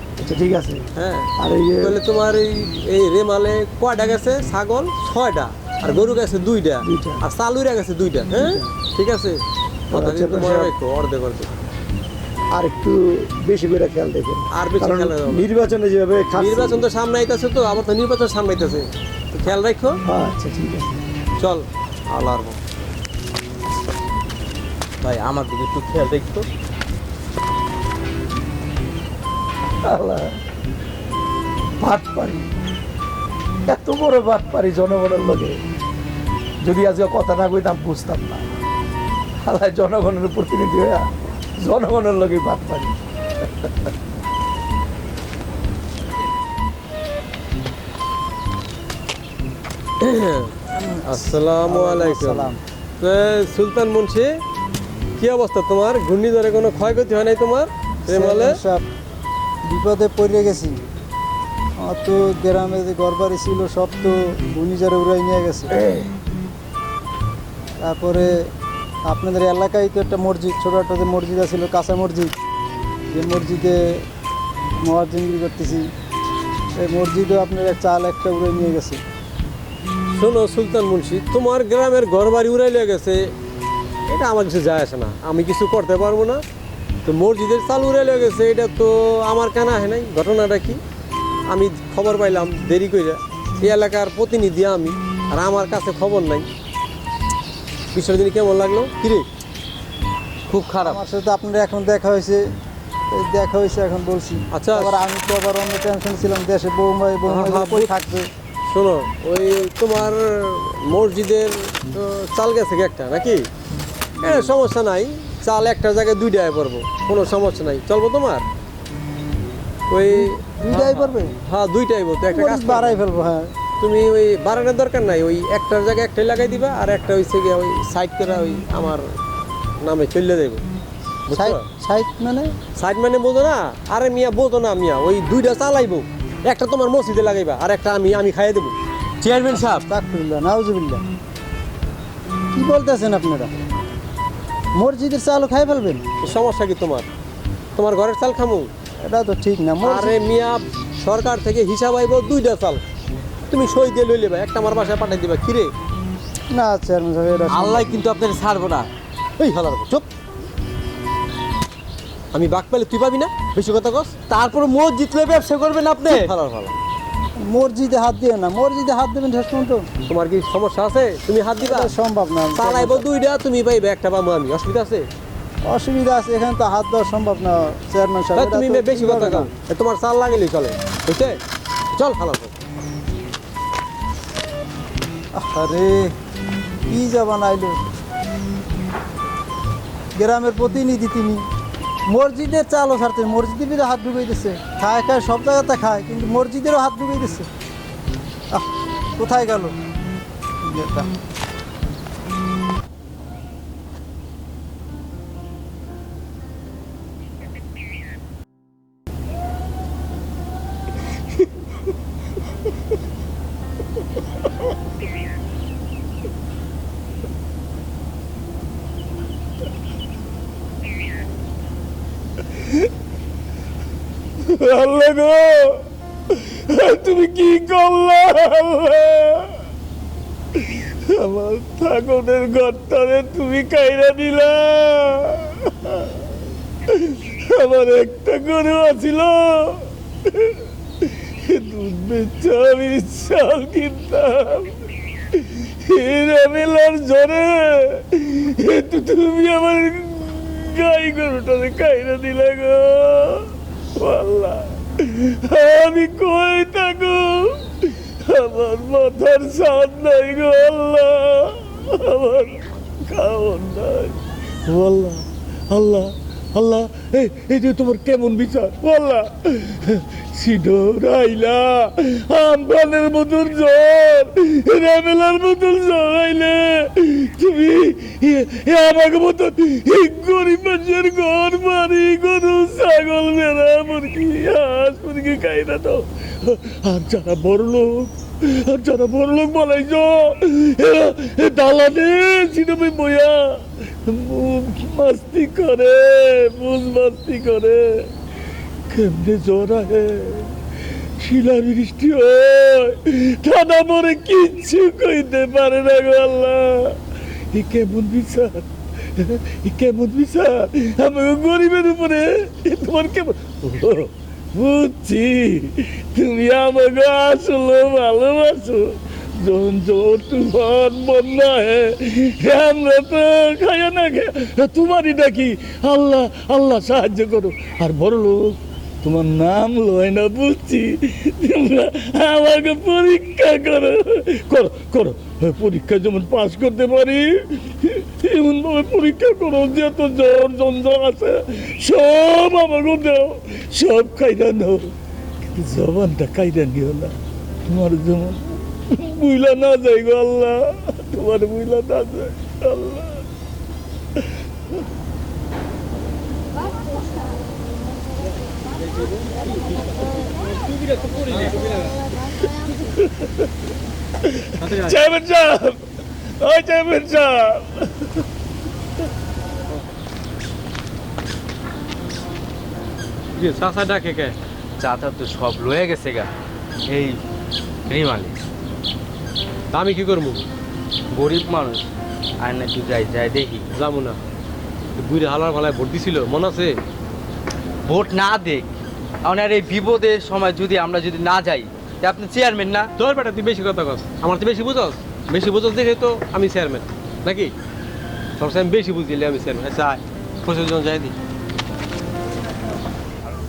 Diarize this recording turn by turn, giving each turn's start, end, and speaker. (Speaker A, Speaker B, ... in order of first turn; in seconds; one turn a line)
Speaker A: 0.2-0.8
Speaker B: 0.9-11.5
Speaker A: 1.4-2.0
Speaker A: 6.8-7.2
Speaker A: 8.4-8.7
Speaker A: 9.9-10.7
Speaker A: 12.5-16.8
Speaker B: 14.5-15.5
Speaker B: 16.4-20.0
Speaker A: 20.0-21.0
Speaker B: 21.4-22.6
Speaker C: 25.0-26.4
Speaker A: 29.8-30.4
Speaker A: 31.8-32.5
Speaker A: 33.7-35.6
Speaker A: 36.6-38.5
Speaker A: 39.5-41.1
Speaker A: 41.6-43.0
Speaker B: 50.0-54.3
Speaker D: 50.8-52.6
Speaker B: 55.2-58.6
Speaker D: 58.0-58.8
Speaker D: 59.6-60.8
Speaker D: 61.8-65.8
Speaker A: 65.8-66.1
Speaker D: 67.8-68.3
Speaker D: 69.0-72.3
Speaker D: 73.1-74.0
Speaker D: 74.8-75.9
Speaker D: 76.8-79.0
Speaker B: 80.1-83.3
Speaker B: 84.1-86.4
Speaker B: 87.0-90.8
Speaker B: 91.5-96.5
Speaker B: 97.9-99.2
Speaker C: 100.5-101.0
Speaker D: 100.8-102.4
Speaker D: 103.1-108.3
Speaker B: 104.5-105.0
Speaker B: 107.3-107.9
Speaker B: 108.7-113.4
Speaker B: 114.2-118.4
Speaker B: 119.9-123.0
Speaker D: 120.2-121.3
Speaker D: 122.3-123.5
Speaker B: 123.8-129.0
Speaker B: 129.8-130.6
Speaker B: 131.3-131.6
Speaker D: 131.3-132.5
Speaker B: 132.8-138.7
Speaker C: 139.2-139.8
Speaker D: 139.5-141.0
Speaker D: 142.5-143.5
Speaker D: 144.8-146.0
Speaker B: 146.2-147.1
Speaker B: 147.8-148.7
Speaker D: 149.1-150.2
Speaker B: 149.8-152.8
Speaker B: 153.5-155.7
Speaker D: 156.5-157.9
Speaker C: 157.5-158.9
Speaker B: 159.4-160.1
Speaker B: 162.3-164.2
Speaker C: 164.3-166.3
Speaker B: 166.0-166.8
Speaker D: 167.4-169.9
Speaker B: 170.1-171.9
Speaker D: 171.6-173.1
Speaker B: 172.5-175.1
Speaker D: 175.7-179.5
Speaker B: 178.3-181.4
Speaker B: 181.9-182.6
Speaker D: 185.4-186.1
Speaker D: 186.9-187.8
Speaker D: 190.1-191.4
Speaker D: 192.1-197.5
Speaker D: 198.5-199.7
Speaker D: 200.6-201.1
Speaker E: 222.6-222.9
Speaker E: 224.4-229.6
Speaker E: 230.5-236.3
Speaker E: 236.8-298.1
Speaker E: 298.9-307.0
Speaker E: 307.5-344.9
Speaker E: 345.4-353.2
Speaker E: 354.1-354.8
Speaker B: 361.2-361.5
Speaker E: 363.0-363.5
Speaker E: 364.2-365.8
Speaker B: 364.6-364.9
Speaker E: 366.4-368.2
Speaker B: 373.3-374.4
Speaker C: 374.8-376.3
Speaker C: 376.9-377.2
Speaker C: 377.9-378.4
Speaker B: 379.7-380.4
Speaker C: 381.1-381.9
Speaker C: 382.4-383.7
Speaker B: 383.7-384.2
Speaker B: 385.0-386.8
Speaker C: 387.9-388.7
Speaker C: 389.2-392.9
Speaker B: 393.0-397.5
Speaker B: 398.4-401.1